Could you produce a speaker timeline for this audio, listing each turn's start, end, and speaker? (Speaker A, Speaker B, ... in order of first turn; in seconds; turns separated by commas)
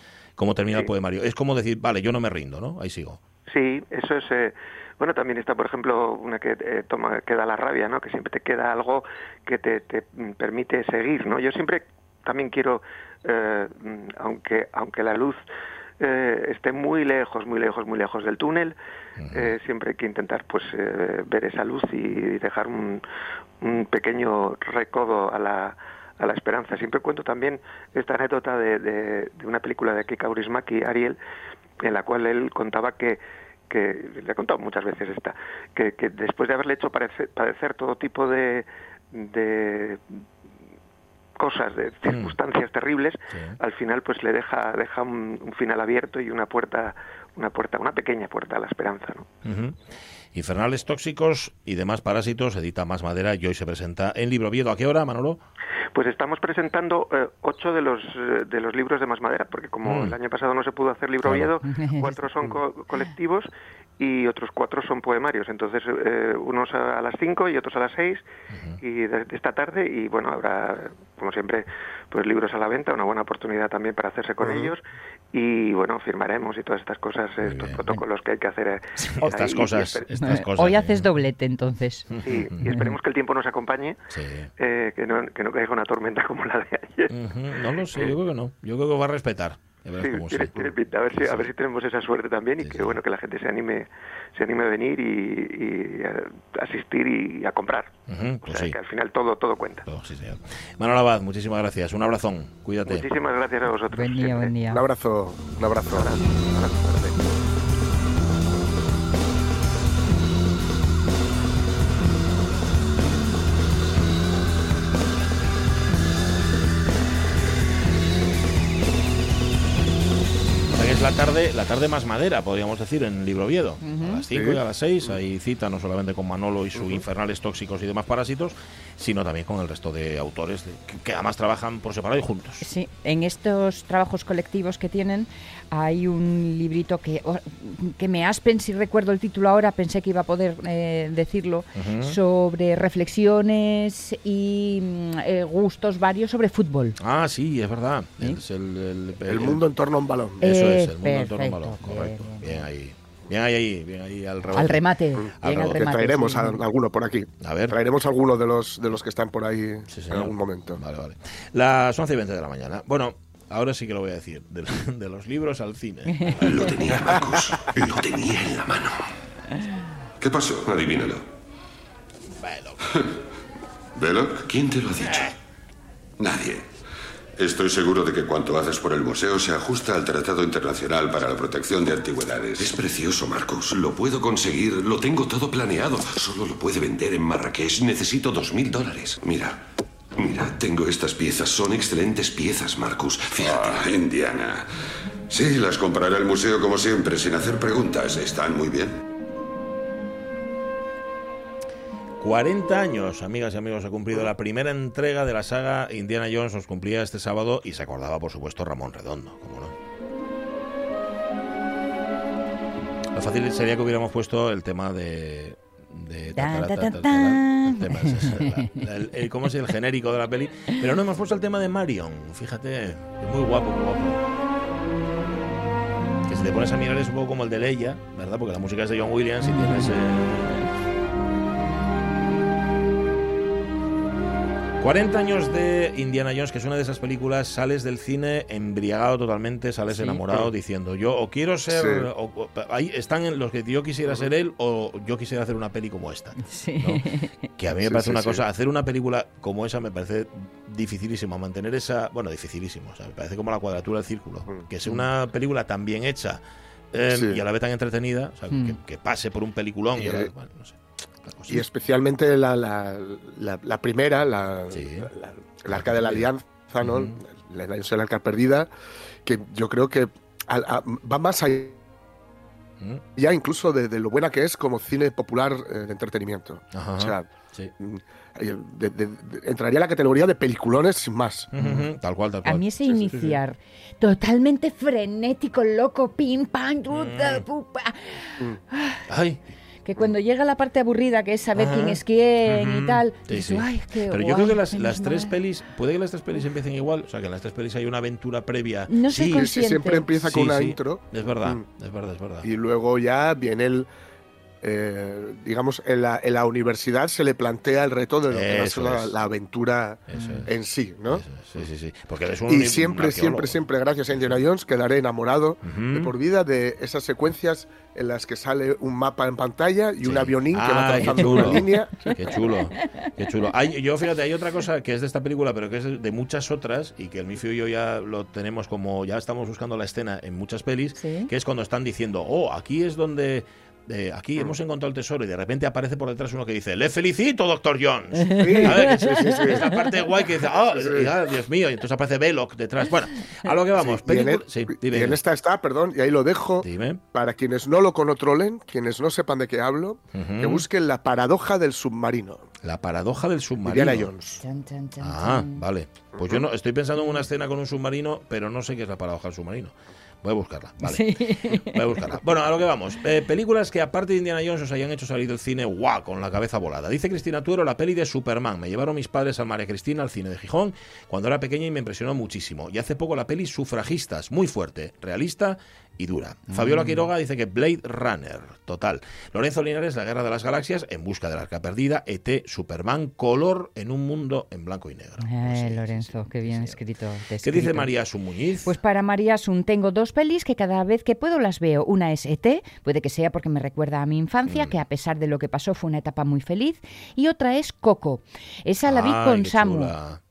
Speaker A: 0.4-3.2, Speaker B: 3.5-15.4, Speaker B: 16.0-18.8, Speaker A: 19.2-19.5, Speaker B: 19.3-23.0, Speaker B: 23.6-31.2, Speaker B: 31.8-40.2, Speaker B: 41.4-49.3, Speaker A: 42.0-42.4, Speaker A: 43.3-43.6, Speaker A: 49.5-49.8, Speaker A: 50.3-55.4, Speaker B: 55.9-68.2, Speaker A: 59.9-60.1, Speaker A: 61.2-61.5, Speaker C: 61.6-62.2, Speaker A: 68.5-68.8, Speaker B: 68.8-80.4, Speaker D: 74.4-74.7, Speaker A: 77.4-77.8, Speaker C: 79.0-79.3, Speaker A: 79.2-81.1, Speaker C: 80.2-82.0, Speaker A: 82.1-82.5, Speaker B: 82.2-84.0, Speaker C: 82.6-82.9, Speaker A: 84.1-84.5, Speaker B: 84.6-88.1, Speaker A: 87.1-90.6, Speaker B: 90.0-97.9, Speaker A: 91.1-91.5, Speaker A: 92.6-93.0, Speaker A: 98.1-98.8, Speaker B: 98.5-99.9, Speaker A: 99.9-103.1, Speaker B: 102.9-104.5, Speaker C: 103.9-104.8, Speaker D: 104.7-106.2, Speaker B: 106.0-107.1, Speaker D: 106.7-107.1, Speaker A: 120.7-132.6, Speaker C: 123.8-124.2, Speaker D: 124.3-125.2, Speaker D: 126.8-127.0, Speaker C: 132.6-147.0, Speaker A: 141.8-142.2, Speaker A: 147.0-149.6, Speaker D: 149.3-150.5, Speaker A: 150.4-154.8, Speaker C: 150.4-152.6, Speaker C: 154.5-156.6, Speaker D: 155.1-160.8, Speaker A: 155.4-155.8, Speaker A: 157.4-157.8, Speaker A: 159.9-167.1, Speaker C: 166.2-166.4, Speaker E: 166.4-169.0, Speaker E: 170.2-171.2, Speaker A: 172.4-173.0, Speaker E: 174.0-175.3, Speaker A: 175.0-175.3, Speaker E: 176.2-176.7, Speaker E: 177.4-189.6, Speaker E: 190.2-194.6, Speaker E: 195.3-199.0, Speaker A: 202.2-209.8, Speaker A: 213.1-224.2, Speaker C: 216.3-218.8, Speaker A: 226.2-230.7, Speaker C: 229.4-230.0, Speaker A: 234.8-247.0, Speaker C: 239.9-240.2, Speaker D: 241.7-242.1, Speaker C: 246.4-247.5, Speaker A: 247.6-256.4, Speaker D: 247.8-248.4, Speaker A: 256.9-261.6, Speaker D: 257.1-257.4, Speaker C: 258.5-258.8, Speaker D: 259.9-260.3, Speaker D: 261.5-268.7, Speaker A: 264.7-265.1, Speaker A: 265.7-266.3, Speaker A: 266.8-267.2, Speaker D: 269.2-271.8, Speaker D: 273.1-281.5, Speaker A: 276.7-277.7, Speaker A: 281.5-283.4, Speaker C: 282.4-289.0, Speaker A: 286.9-287.4, Speaker A: 289.1-289.4, Speaker C: 289.9-295.4, Speaker A: 291.6-299.5, Speaker C: 298.9-300.1, Speaker D: 299.3-301.6, Speaker A: 300.2-302.5, Speaker D: 302.4-303.9, Speaker D: 304.6-311.7, Speaker A: 308.3-309.1, Speaker A: 310.1-310.5, Speaker C: 310.1-310.5, Speaker A: 311.1-313.5, Speaker D: 312.5-322.3, Speaker A: 315.6-316.1, Speaker A: 320.0-345.2, Speaker C: 322.8-323.1, Speaker C: 331.0-331.3, Speaker C: 338.1-339.6, Speaker D: 338.3-339.8, Speaker D: 340.7-341.1, Speaker D: 343.7-352.4, Speaker A: 346.6-347.0, Speaker A: 350.1-350.6, Speaker A: 352.6-354.1, Speaker D: 353.6-354.4, Speaker C: 354.4-355.6, Speaker A: 355.0-386.8, Speaker D: 356.1-356.4, Speaker C: 360.8-361.9, Speaker C: 376.5-377.1, Speaker C: 385.2-387.9, Speaker A: 387.4-388.8, Speaker C: 388.6-399.9, Speaker A: 394.5-394.7, Speaker A: 398.9-400.2